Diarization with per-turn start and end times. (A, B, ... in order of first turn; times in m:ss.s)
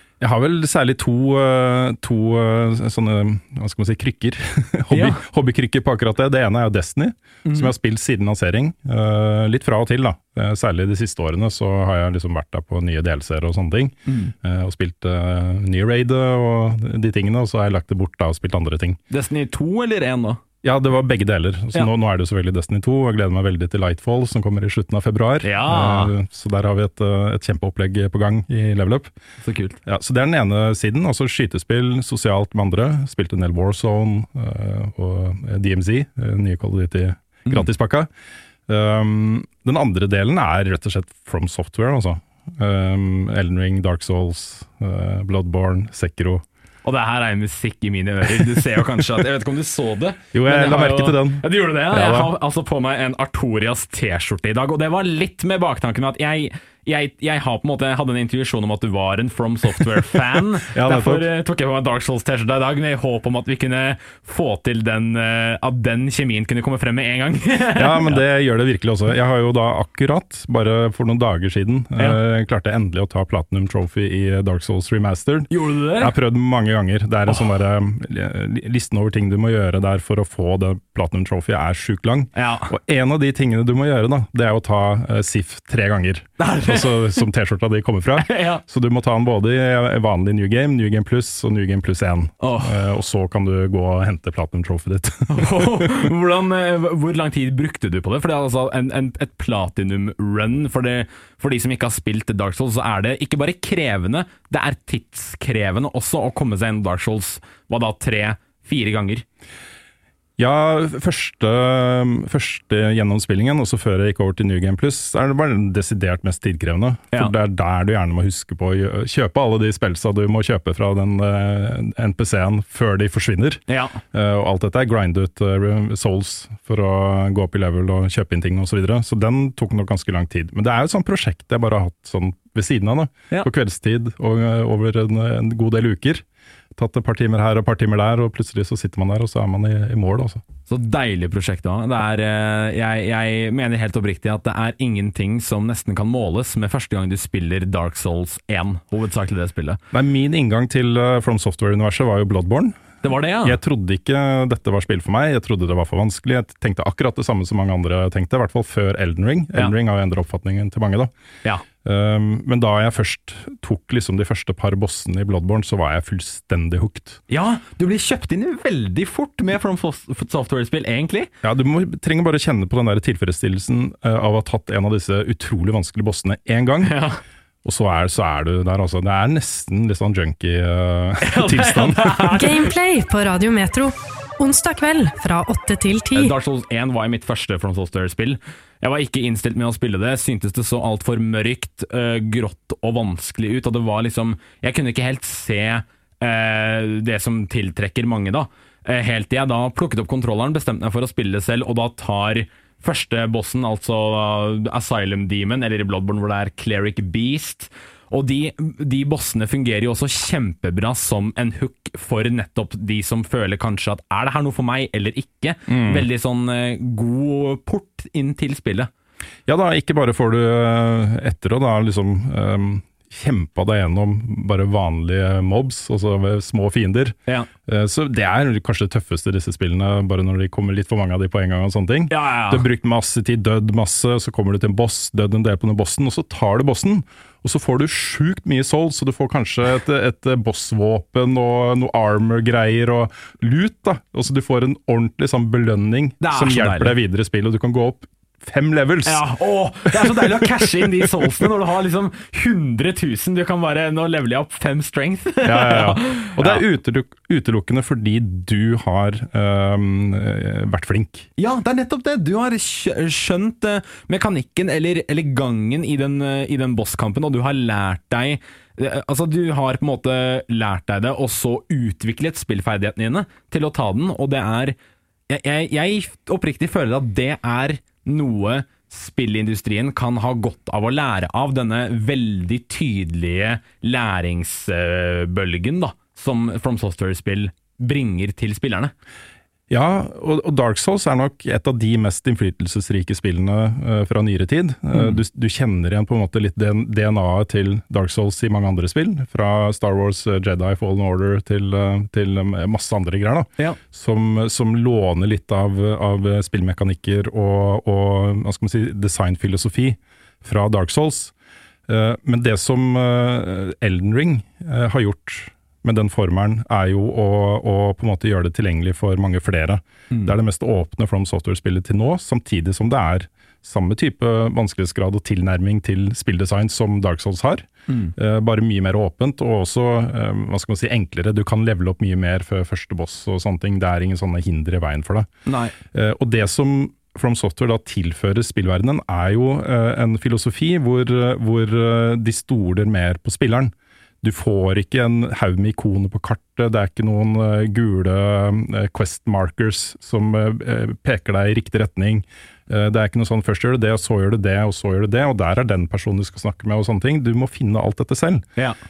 0:00.2-0:19.0 A
0:04.9-0:05.2 B
0:07.4-0:07.7 B
0:14.1-0:14.3 B
0:19.1-0:20.4 B
0:20.6-0:29.1 A
0:25.4-0:26.1 B
0:29.4-0:29.8 B
0:29.9-0:38.1 A
0:38.7-0:46.4 A
0:46.8-1:08.2 B
0:50.3-0:52.3 A
1:00.7-1:01.3 A
1:07.8-1:36.1 A
1:12.0-1:12.2 B
1:15.5-1:16.2 B
1:22.4-1:22.7 B
1:26.4-1:27.2 B
1:28.2-1:28.6 B
1:32.4-1:32.8 B
1:35.3-1:49.2 B
1:50.4-2:03.6 A
2:03.7-2:04.0 B
2:04.1-2:16.2 A
2:16.8-2:20.4 A
2:20.7-2:29.8 B
2:29.9-2:32.8 A
2:33.0-2:33.6 B
2:33.4-2:41.1 A
2:41.8-2:47.2 A
2:47.3-2:51.3 B
2:51.4-2:56.9 A
2:56.8-2:57.2 B
2:57.6-3:02.3 A
3:01.2-3:02.7 B
3:02.3-3:06.3 C
3:06.1-3:38.9 B
3:35.7-3:36.1 A
3:39.5-4:09.3 A
3:52.1-3:52.7 B
4:06.2-4:07.0 B
4:09.1-4:16.6 B
4:09.9-4:10.5 A
4:15.4-4:21.3 A
4:21.4-4:34.8 B
4:35.3-4:48.9 B
4:49.7-5:11.3 A
4:54.9-4:55.2 B
5:11.9-5:35.3 A
5:27.9-5:28.1 B
5:35.5-5:35.8 B
5:35.9-5:58.5 A